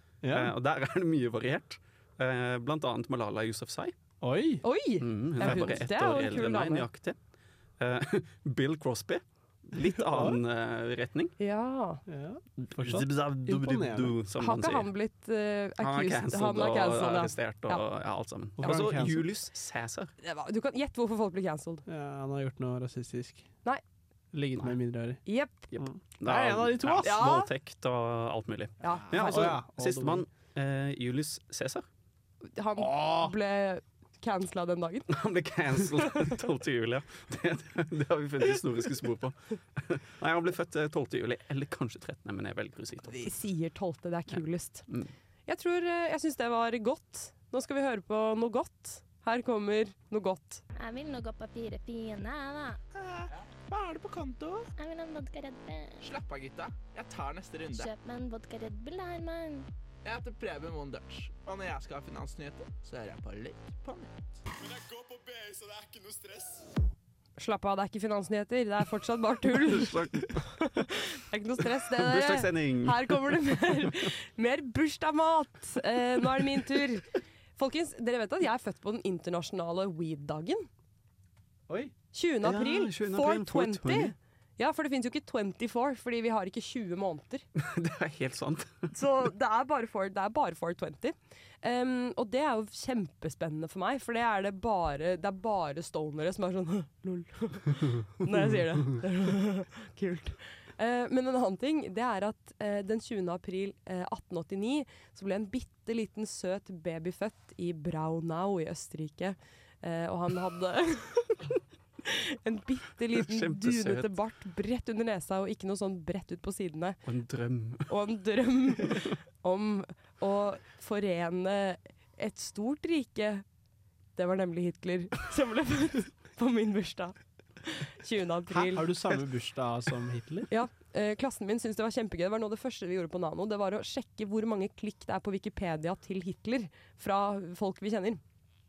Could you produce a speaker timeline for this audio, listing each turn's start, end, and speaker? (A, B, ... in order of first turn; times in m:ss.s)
0:00.2-0:00.5 A
0:00.3-0:03.9 B
0:04.2-0:04.6 A
0:04.6-0:06.8 C
0:05.0-0:07.2 B
0:07.8-0:11.3 B
0:10.0-0:10.4 A
0:11.4-0:12.0 C
0:12.1-0:14.2 A
0:12.6-0:14.9 B
0:14.4-0:17.8 C
0:15.8-0:20.1 B
0:18.6-0:19.3 A
0:20.2-0:21.8 C
0:21.8-0:23.4 A
0:24.3-0:25.2 A
0:25.2-0:25.7 C
0:25.7-0:31.8 B
0:25.8-0:27.4 A
0:27.0-0:27.5 C
0:28.8-0:29.6 C
0:29.0-0:30.2 A
0:32.5-0:35.1 C
0:32.8-0:33.3 A
0:35.1-0:43.3 B
0:36.0-0:36.3 C
0:43.1-0:44.9 C
0:45.5-0:50.6 C
0:50.8-0:52.8 D
0:53.7-0:54.7 E
0:54.8-0:56.1 D
0:56.0-0:57.9 E
0:57.7-0:59.7 D
1:00.0-1:04.1 E
1:07.4-1:20.7 C
1:09.5-1:10.5 B
1:11.9-1:13.4 B
1:22.1-1:27.4 C
1:22.4-1:24.1 B
1:27.6-1:28.9 B
1:28.9-1:51.4 C
1:52.0-1:57.0 C
1:53.2-1:54.1 B
1:57.0-1:57.9 B
1:57.9-2:03.4 C
2:04.2-2:08.9 C
2:08.5-2:10.5 A
2:10.5-2:18.2 C